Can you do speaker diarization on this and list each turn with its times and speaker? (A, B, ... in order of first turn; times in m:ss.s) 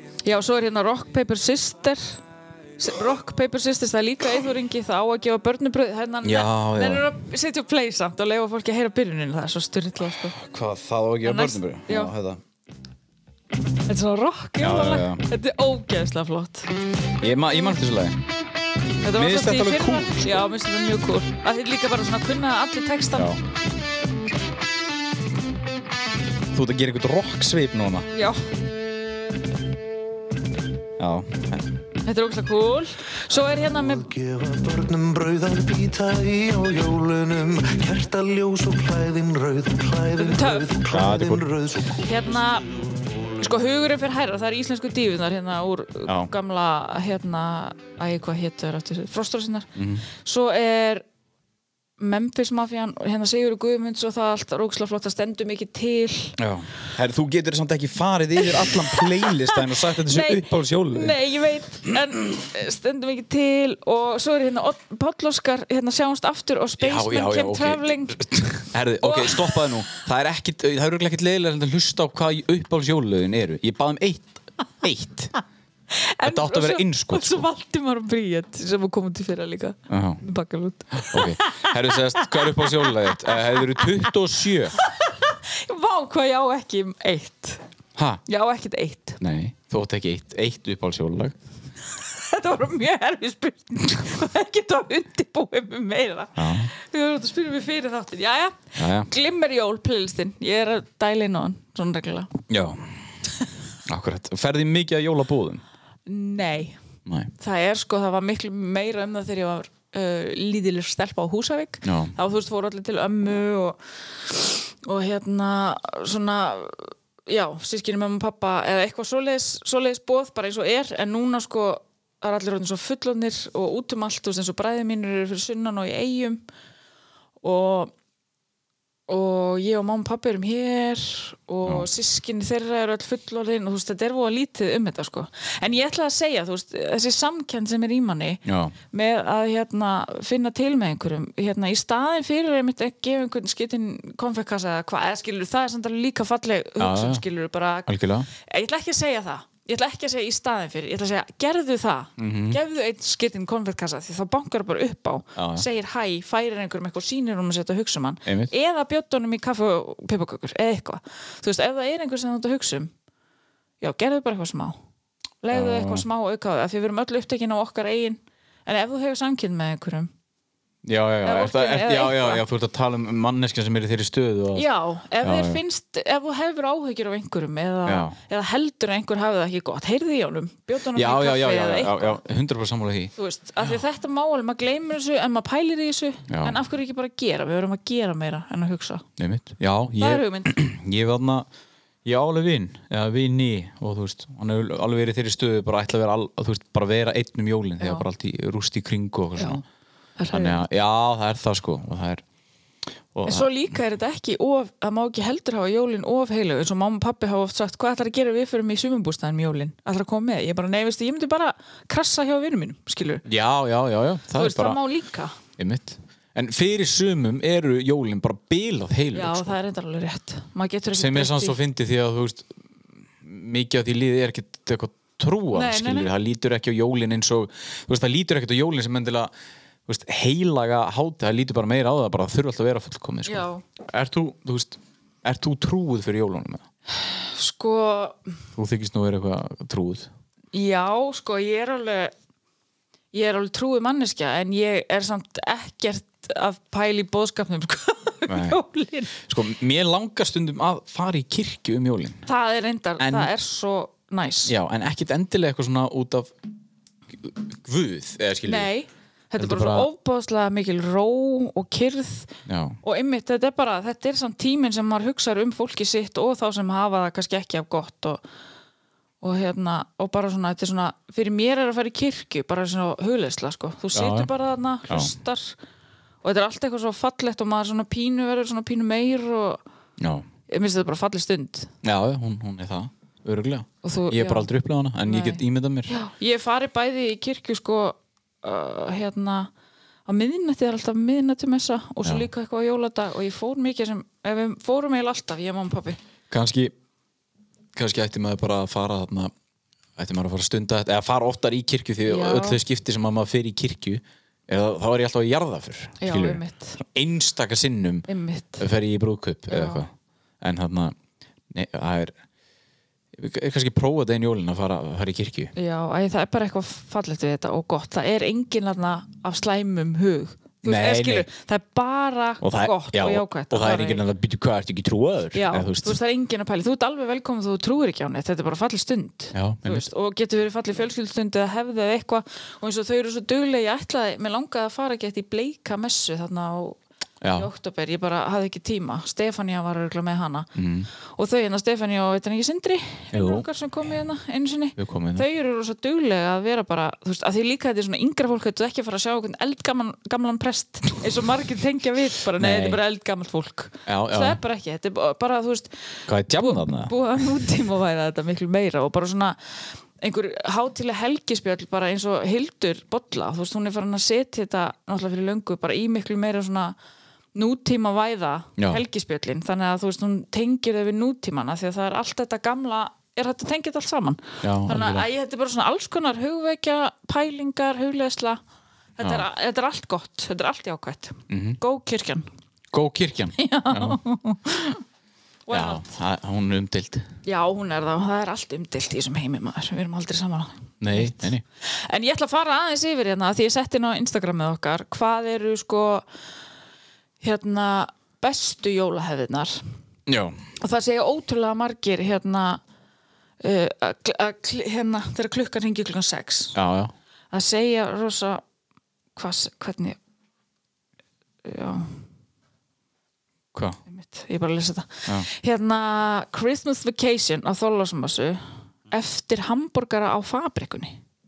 0:00.2-0:02.2 A
0:02.8-0:10.4 A
0:06.2-0:07.1 B
0:10.3-0:12.4 B
0:11.2-0:12.1 A
0:13.8-0:16.7 A
0:14.6-0:15.2 B
0:17.2-0:18.2 B
0:19.0-0:23.3 A
0:19.1-0:20.4 B
0:23.1-0:23.4 B
0:26.5-0:28.1 B
0:28.1-0:28.4 A
0:31.0-0:31.7 B
0:32.0-0:34.1 A
0:33.7-0:42.3 C
0:40.2-0:40.7 A
0:40.9-0:41.5 B
0:42.0-0:42.7 A
0:43.4-0:51.0 A
0:46.0-0:46.3 B
0:49.8-0:50.0 B
0:52.0-0:56.4 A
0:56.4-1:01.2 B
0:58.6-1:08.2 A
1:06.8-1:15.3 B
1:09.0-1:09.7 A
1:15.9-1:23.9 A
1:16.2-1:17.4 B
1:19.9-1:20.2 B
1:21.0-1:24.8 B
1:24.8-1:27.6 A
1:28.0-1:28.2 B
1:28.3-1:29.2 A
1:29.2-1:31.3 B
1:32.0-1:42.3 A
1:36.4-1:36.7 B
1:38.8-1:39.1 B
1:42.5-1:43.0 B
1:43.8-1:45.6 B
1:46.1-1:46.8 A
1:47.0-1:47.3 B
1:47.4-2:06.4 A
1:51.8-1:52.1 B
2:07.4-2:07.9 A
2:09.1-2:42.9 A
2:18.4-2:18.7 B
2:26.8-2:27.2 B
2:27.8-2:28.3 B
2:32.2-2:32.6 B
2:35.4-2:35.7 B
2:38.2-2:38.5 B
2:43.8-2:44.8 A
2:45.4-2:50.1 A
2:45.5-2:46.0 B
2:50.8-2:54.6 B
2:51.2-2:52.4 A
2:54.5-3:02.2 A
2:55.2-2:55.6 B
2:57.8-2:58.2 B
3:00.9-3:03.1 B
3:03.2-3:09.0 A
3:06.3-3:06.6 B
3:09.2-3:11.5 B
3:10.0-3:10.6 A
3:12.0-3:19.6 B
3:17.8-3:18.0 A
3:19.4-3:19.6 A
3:20.2-3:20.6 A
3:20.3-3:22.2 B
3:23.1-3:23.5 B
3:23.2-3:33.2 A
3:33.2-3:34.8 B
3:34.3-3:35.4 A
3:35.6-3:39.5 B
3:39.1-3:41.6 A
3:40.9-3:42.5 B
3:43.2-3:49.3 B
3:45.5-3:46.1 A
3:49.8-3:56.6 B
3:53.2-3:53.6 A
3:56.9-3:58.3 A
3:58.6-4:00.1 B
4:00.5-4:02.1 A
4:03.1-4:09.2 A
4:08.3-4:08.6 B
4:09.2-4:12.2 B
4:12.2-4:14.5 A
4:13.0-4:13.3 B
4:14.4-4:16.3 B
4:17.1-4:18.7 B
4:18.4-4:22.3 A
4:19.4-4:19.9 B
4:22.4-4:22.8 B
4:22.8-4:28.2 A
4:29.2-4:35.6 A
4:33.9-4:34.3 B
4:36.2-4:39.6 A
4:40.0-4:40.2 B
4:40.5-4:41.7 A
4:41.8-4:46.0 B
4:43.8-4:44.5 A
4:45.0-4:49.5 A
4:50.1-4:56.0 A
4:56.3-4:56.7 B
4:57.7-4:59.3 B
5:00.0-5:08.1 B
5:02.0-5:02.6 A
5:06.0-5:06.8 A
5:08.1-5:08.6 A
5:08.6-5:10.9 B
5:09.5-5:09.8 A
5:11.5-5:12.1 B
5:13.1-5:15.5 B
5:15.5-5:24.0 A
5:20.6-5:21.3 B
5:22.4-5:26.0 B
5:25.3-5:36.8 A
5:29.3-5:29.9 B
5:37.2-5:37.5 B
5:37.3-5:40.5 A
5:40.5-5:40.9 B
5:41.1-6:06.7 A
5:43.1-5:43.4 B
5:44.8-5:45.2 B
5:52.4-5:52.8 B
5:53.8-5:54.4 B
5:56.1-5:56.9 B
6:07.3-6:18.4 A
6:14.4-6:15.1 B
6:19.0-6:22.3 A
6:21.3-6:21.6 B
6:22.7-6:24.0 B
6:23.4-6:24.8 A
6:25.5-6:25.8 A
6:25.5-6:27.1 B
6:27.2-6:36.1 A
6:30.8-6:31.4 B
6:37.2-6:39.6 A
6:40.1-6:40.4 B
6:40.6-6:42.6 A
6:43.4-6:46.6 A
6:46.5-6:46.9 B
6:47.3-6:48.4 A
6:49.2-6:50.0 A
6:51.4-6:52.0 A
6:53.5-6:53.8 B
6:53.9-7:01.0 A